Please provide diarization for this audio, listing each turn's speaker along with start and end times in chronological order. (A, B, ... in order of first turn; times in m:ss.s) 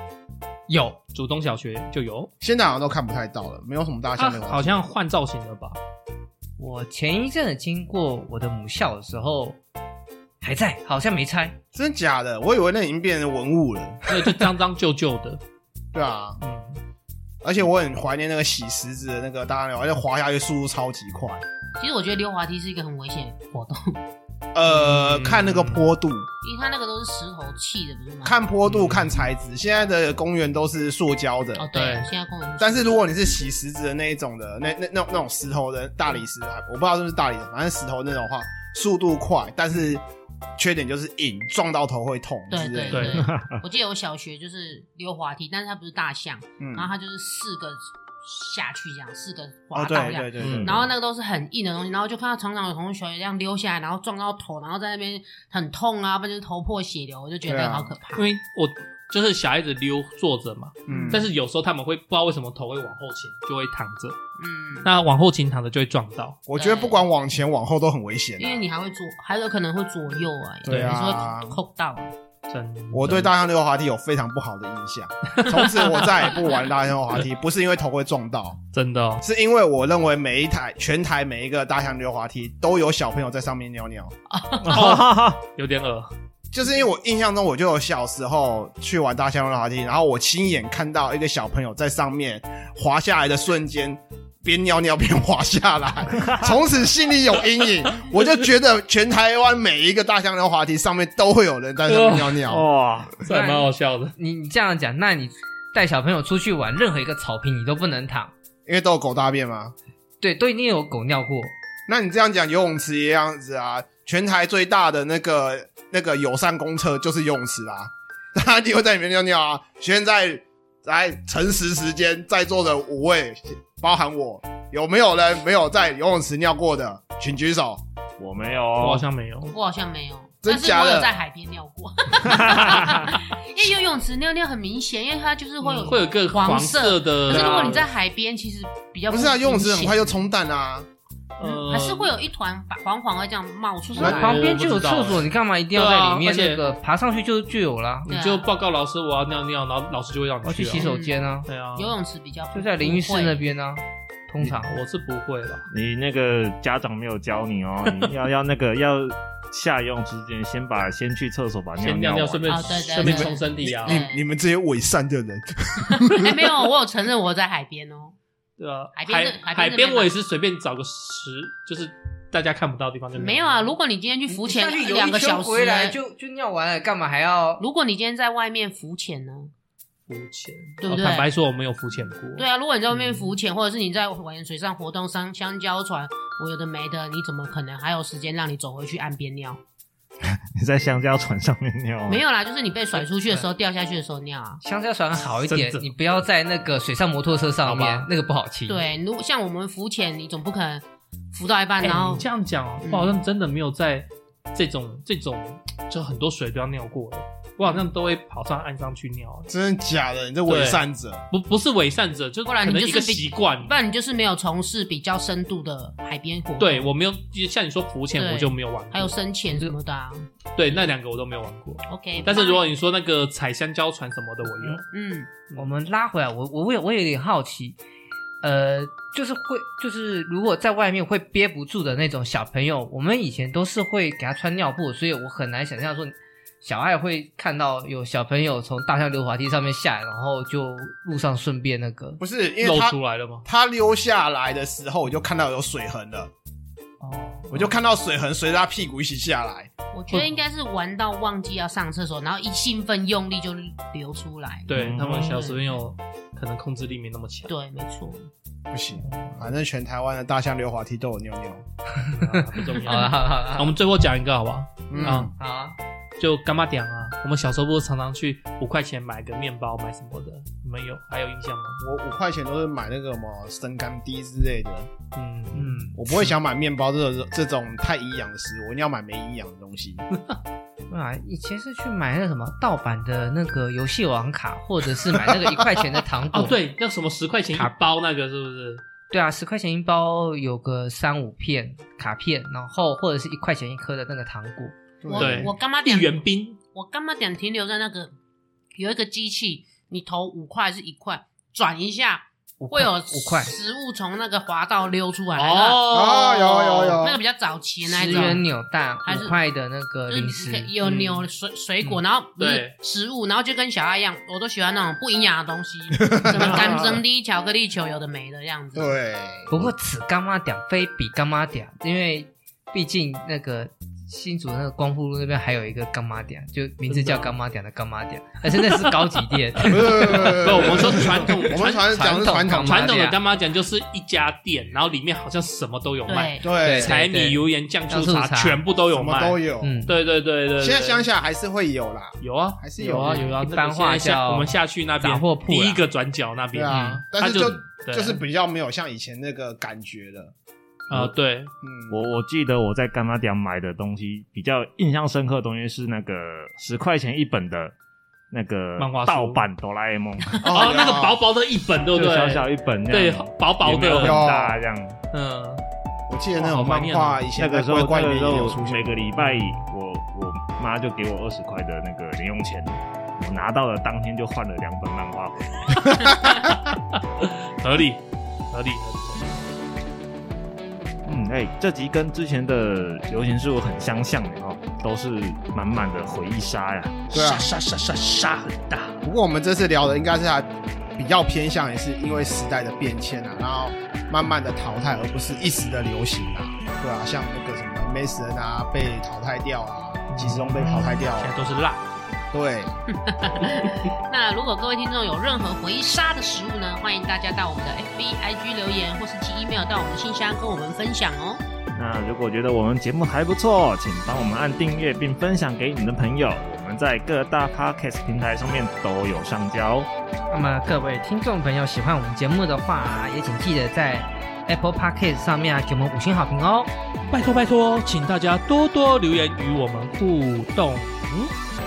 0:00.7-0:01.0 A
0:01.1-0:02.3 B
0:02.4-0:04.8 C
0:04.2-0:05.8 B
0:06.6-0:09.6 A
0:10.4-0:11.6 A
0:11.7-0:14.4 C
0:14.1-0:15.4 B
0:15.9-0:16.4 C
0:16.4-0:16.8 B
0:17.4-0:21.4 C
0:21.8-0:24.0 D
0:24.5-0:26.3 C
0:24.6-0:25.9 B
0:26.4-0:28.4 D
0:28.2-0:31.7 C
0:28.6-0:29.2 B
0:31.6-0:33.0 D
0:31.7-0:32.1 B
0:32.6-0:40.0 C
0:40.6-0:43.1 C
0:42.5-0:58.3 D
0:42.9-0:43.2 B
0:43.2-0:43.6 E
0:46.6-0:46.9 C
0:49.7-0:50.9 C
0:50.4-0:50.7 B
0:50.4-0:50.7 E
0:57.5-0:57.9 C
0:58.2-1:04.2 B
1:00.9-1:01.3 C
1:00.9-1:01.3 D
1:04.4-1:04.9 D
1:04.8-1:06.4 B
1:06.5-1:08.6 C
1:06.6-1:07.0 D
1:08.4-1:12.1 D
1:10.7-1:11.6 C
1:12.5-1:13.3 B
1:12.9-1:18.6 C
1:15.4-1:16.1 B
1:18.7-1:19.2 B
1:19.2-1:24.1 C
1:24.3-1:25.0 D
1:24.6-1:25.4 E
1:24.7-1:26.1 B
1:26.5-1:42.6 C
1:36.2-1:36.5 E
1:41.9-1:42.4 B
1:42.5-1:43.2 E
1:43.2-1:44.1 B
1:43.2-1:48.3 A
1:48.7-1:49.7 C
1:50.2-1:51.5 A
1:51.9-2:07.8 C
2:08.2-2:09.1 E
2:08.8-2:09.6 B
2:09.5-2:20.2 D
2:10.4-2:11.1 C
2:12.3-2:13.1 E
2:15.6-2:17.9 B
2:19.1-2:20.9 C
2:21.4-2:22.2 B
2:21.4-2:24.6 D
2:23.9-2:28.1 A
2:24.0-2:26.6 B
2:28.1-2:28.5 D
2:28.1-2:30.9 B
2:30.4-2:31.5 A
2:30.7-2:31.2 D
2:31.5-2:32.0 B
2:31.8-2:33.4 D
2:32.5-2:34.8 A
2:34.6-2:35.7 B
2:35.7-2:42.7 E
2:37.9-2:38.1 B
2:41.8-2:44.0 B
2:42.5-2:44.2 D
2:43.0-2:46.5 C
2:45.9-2:48.2 D
2:48.6-2:53.7 B
2:49.0-2:50.1 D
2:53.2-2:56.0 D
2:54.3-2:57.6 A
2:57.6-2:59.5 D
3:00.1-3:03.3 B
3:00.8-3:01.3 D
3:02.4-3:09.6 D
3:10.2-3:12.2 E
3:12.1-3:14.6 D
3:12.9-3:13.4 B
3:14.6-3:18.8 A
3:15.5-3:15.9 B
3:17.6-3:18.1 B
3:18.7-3:22.2 D
3:21.8-3:29.5 B
3:22.8-3:23.2 D
3:29.5-3:31.2 C
3:30.5-3:33.8 B
3:32.5-3:36.9 D
3:36.6-3:39.2 B
3:38.2-3:40.3 D
3:40.6-3:44.8 B
3:41.9-3:42.7 D
3:44.5-3:44.8 A
3:44.9-3:45.3 D
3:45.6-3:47.8 A
3:48.4-4:02.2 A
4:02.2-4:06.3 C
4:02.6-4:03.5 B
4:07.0-4:07.5 B
4:07.5-4:09.7 C
4:09.9-4:15.8 D
4:10.1-4:10.4 B
4:14.7-4:17.5 B
4:14.7-4:15.4 E
4:17.5-4:18.3 D
4:18.7-4:21.6 C
4:19.1-4:19.5 B
4:22.1-4:23.8 A
4:22.2-4:25.3 B
4:24.9-4:25.3 C
4:25.0-4:25.8 A
4:26.2-4:31.8 B
4:31.8-4:34.9 C
4:35.1-4:35.8 B
4:35.5-4:36.0 A
4:36.0-4:40.0 C
4:40.9-4:46.6 A
4:46.3-4:48.8 B
4:49.1-4:54.8 A
4:55.0-4:55.5 C
4:55.2-4:58.1 D
4:55.2-4:56.6 B
4:58.8-5:08.4 D
5:02.6-5:03.5 A
5:05.4-5:06.4 B
5:05.9-5:07.2 C
5:07.8-5:10.7 A
5:09.0-5:09.4 D
5:10.1-5:18.9 D
5:10.8-5:11.3 B
5:12.4-5:12.8 B
5:15.9-5:17.0 C
5:18.8-5:19.7 C
5:19.5-5:33.2 A
5:26.9-5:27.3 B
5:29.7-5:32.9 C
5:30.0-5:31.9 B
5:32.6-5:41.1 B
5:36.1-5:36.5 D
5:36.4-5:37.0 C
5:36.6-5:38.6 A
5:38.9-5:39.8 C
5:39.6-5:40.0 A
5:40.6-5:43.3 C
5:42.2-5:48.2 B
5:42.8-5:45.9 A
5:46.5-5:50.3 C
5:46.7-5:47.0 A
5:50.9-5:51.5 B
5:51.6-5:52.0 C
5:51.9-5:57.7 E
5:58.3-6:00.4 E
5:58.8-5:59.4 B
6:00.4-6:04.4 B
6:00.4-6:01.2 C
6:01.9-6:05.0 E
6:04.0-6:04.6 C
6:05.1-6:05.6 B
6:06.1-6:09.0 C
6:06.4-6:07.3 B
6:07.4-6:16.0 E
6:09.2-6:09.4 B
6:16.1-6:16.6 B
6:17.2-6:19.5 B
6:21.1-6:27.1 E
6:27.1-6:29.0 B
6:27.1-6:27.5 C
6:29.0-6:41.4 C
6:40.1-6:41.9 B
6:42.3-6:42.8 C
6:42.9-6:51.4 D
6:51.8-6:59.9 E
7:00.3-7:06.7 A
7:07.1-7:11.3 B